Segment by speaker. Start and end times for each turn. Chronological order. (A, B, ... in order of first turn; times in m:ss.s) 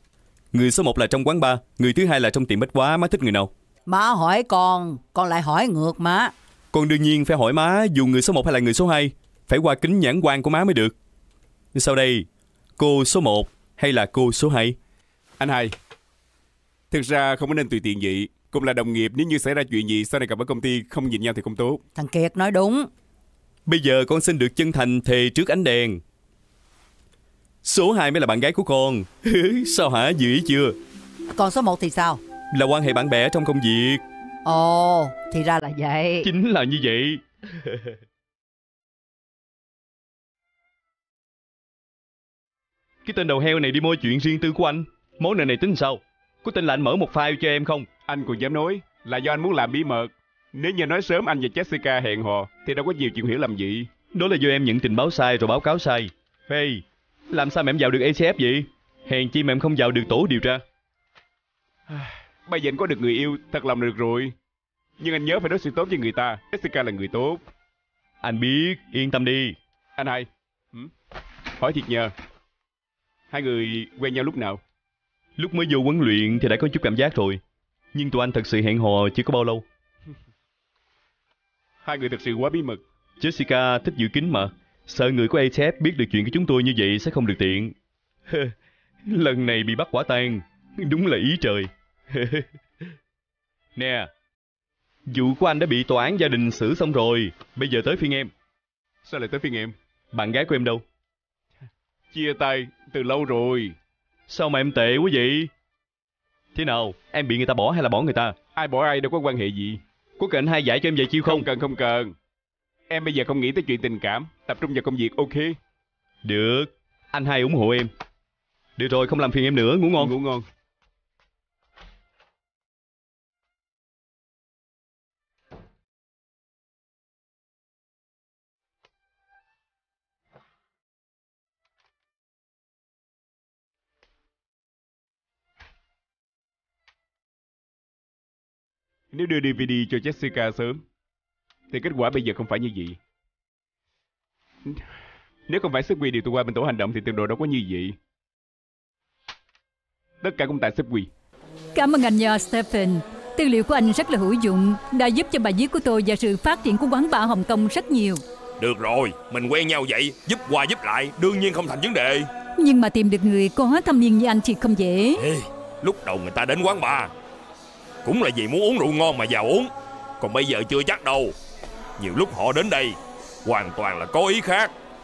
0:00.5-0:03.5 A
0:03.9-0:06.3 B
0:06.7-0:10.9 A
0:11.7-0:12.3 A
0:12.8-0:14.8 A
0:15.4-0:15.7 C
0:16.9-0:21.8 C
0:22.0-0:22.9 B
0:23.7-0:26.0 A
0:27.6-0:30.8 A
0:31.4-0:32.2 B
0:32.5-0:34.0 A
0:34.4-0:36.3 B
0:36.2-0:37.9 A
0:43.0-0:47.9 A
0:48.1-0:53.9 C
0:54.1-1:00.6 A
1:01.9-1:04.3 C
1:05.0-1:07.4 C
1:08.2-1:09.6 A
1:10.0-1:10.9 C
1:11.6-1:12.1 C
1:13.3-1:14.6 C
1:15.4-1:17.4 A
1:17.9-1:19.6 A
1:21.8-1:22.8 C
1:23.2-1:27.7 A
1:28.3-1:28.5 A
1:29.1-1:32.5 A
1:33.8-1:34.1 A
1:35.1-1:38.3 A
1:39.0-1:39.7 C
1:40.1-1:40.8 A
1:42.1-1:43.7 C
1:44.3-1:45.5 A
1:46.5-1:48.4 A
1:48.5-1:49.8 C
1:50.2-1:51.5 A
1:51.2-1:52.1 C
1:52.9-1:55.6 C
1:56.2-1:57.9 A
1:58.8-2:00.2 A
2:00.0-2:00.4 C
2:19.1-2:20.8 C
2:21.7-2:23.0 C
2:25.5-2:28.0 C
2:30.2-2:31.1 C
2:31.7-2:38.2 D
2:38.6-2:42.3 E
2:42.6-2:45.2 D
2:45.2-2:47.1 E
2:48.0-2:51.3 E
2:52.0-2:54.7 E